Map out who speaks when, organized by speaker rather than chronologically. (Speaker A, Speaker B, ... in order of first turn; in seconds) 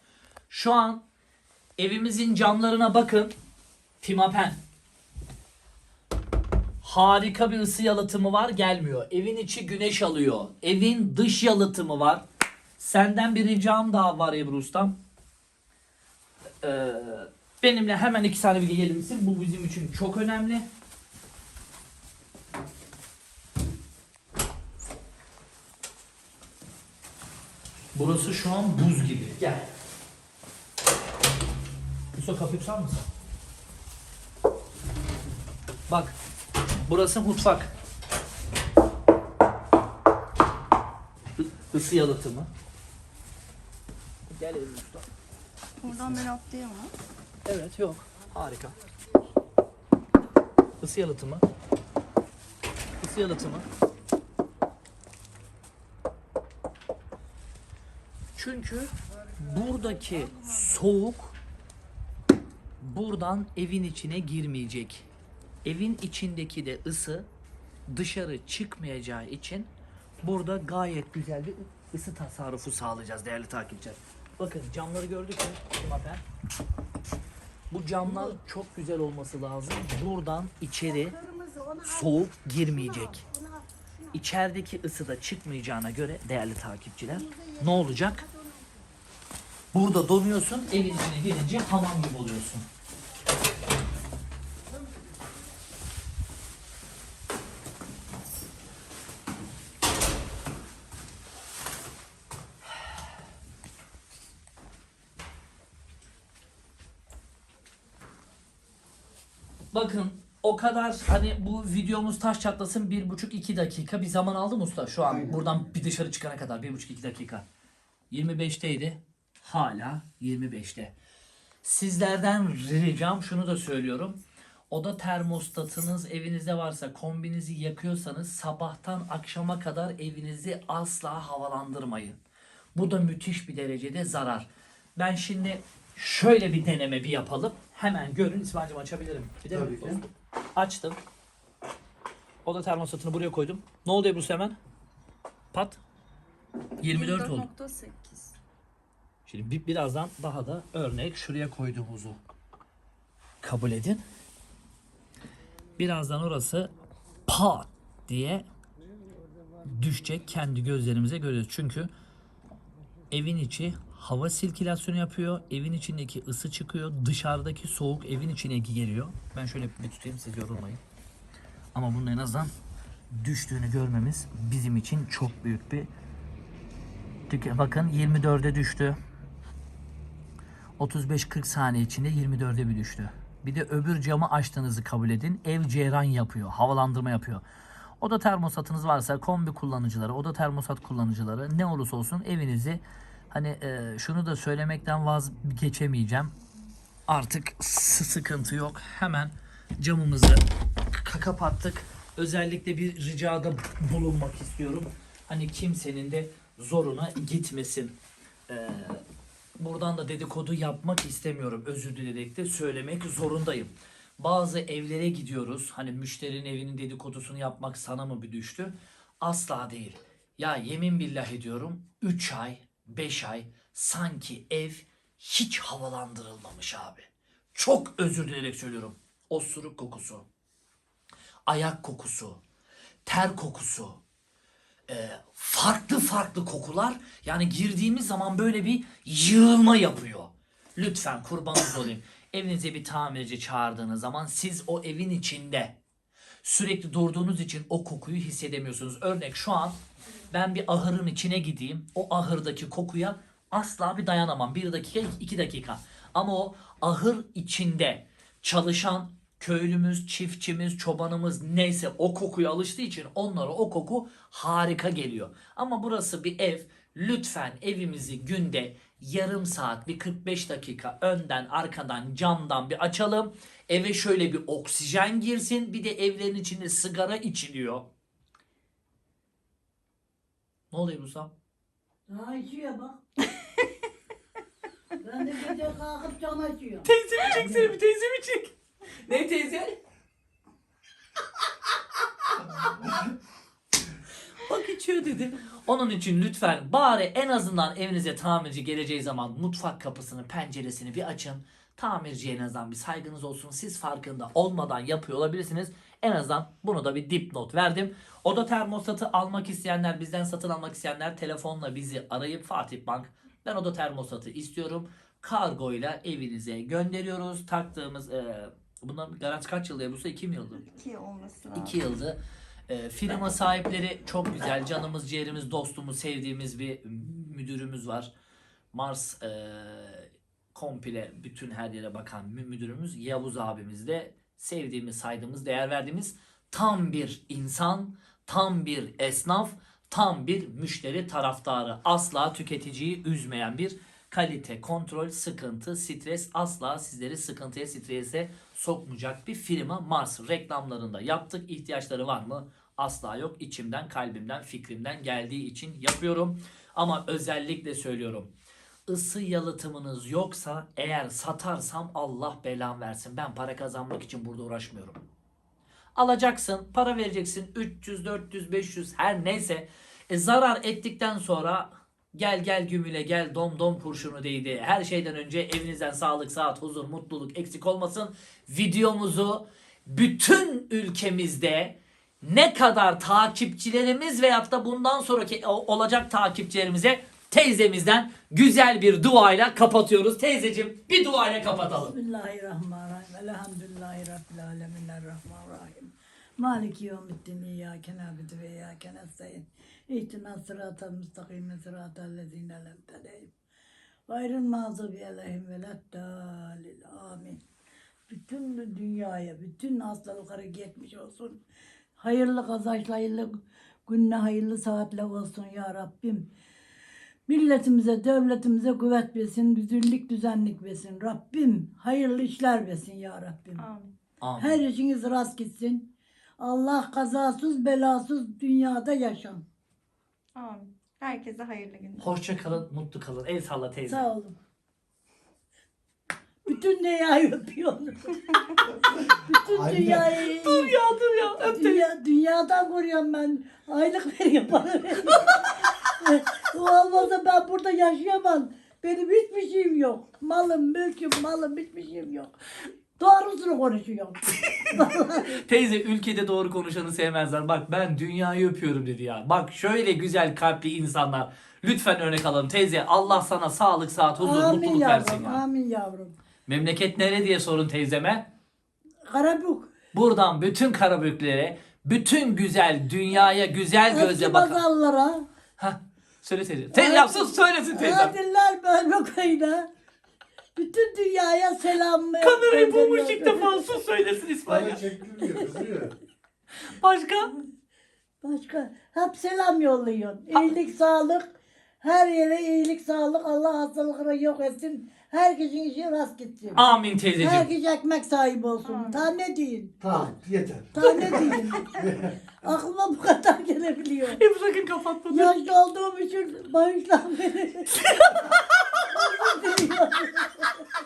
Speaker A: 0.5-1.0, 1.8-3.3, 4.0-4.6, 6.8-12.2, 12.8-14.9, 16.6-20.7, 27.9-29.6, 32.1-33.1, 35.9-36.1, 36.9-37.7, 41.4-42.5, 44.3-45.1, 45.9-46.2, 47.5-48.8, 50.8-51.4, 53.0-53.6, 58.4-61.4, 62.8-65.0, 65.6-67.3, 67.9-69.7, 70.2-76.2, 77.7-81.1, 81.8-83.2, 84.1-88.2, 89.7-92.7, 109.7-117.4, 118.1-120.9, 121.6-124.2, 124.7-132.2, 132.7-140.0, 140.6-141.0, 142.4-144.6, 145.5-145.8, 146.8-147.5, 149.3-152.2, 153.4-154.0, 155.8-156.7, 157.3-158.4, 159.6-161.9, 163.1-170.8, 171.7-172.5, 173.1-175.9, 177.3-179.0, 180.8-187.4, 188.0-196.3, 197.1-208.0, 208.5-209.0, 209.6-230.2, 231.5-232.4, 233.0-234.0, 234.9-245.7, 246.4-249.8, 250.3-277.9, 280.7-281.3, 286.8-289.8, 294.4-320.6, 321.5-328.1, 328.7-358.3, 358.9-365.0, 365.9-391.9, 424.2-424.6, 432.0-434.1, 440.2-441.9, 455.2-465.4, 466.4-468.3, 469.9-474.6, 475.6-478.1, 482.2-484.8, 486.7-487.3, 496.5-497.5, 504.1-505.3, 507.7-508.4
Speaker B: 45.8-46.9, 146.8-148.4, 320.6-321.8, 423.6-423.9, 430.4-432.4, 498.6-499.1
Speaker C: 78.0-78.3, 80.8-84.1, 87.1-88.8, 282.1-283.0, 285.0-287.7, 391.9-403.3, 404.1-407.4, 408.1-411.4, 412.0-416.3, 417.3-423.6, 424.4-429.4, 433.9-434.4, 436.4-438.6, 439.2-440.8, 441.3-452.3, 453.0-455.3, 464.2-466.1, 469.1-469.7, 473.9-475.2, 476.7-479.7, 480.6-483.6, 485.2-485.5, 488.2-496.6, 497.2-499.7, 500.8-501.9, 502.4-504.2, 505.1-507.8, 508.8-510.5
Speaker D: 115.0-115.7, 139.5-140.0, 438.9-440.1, 484.5-485.9, 499.8-502.1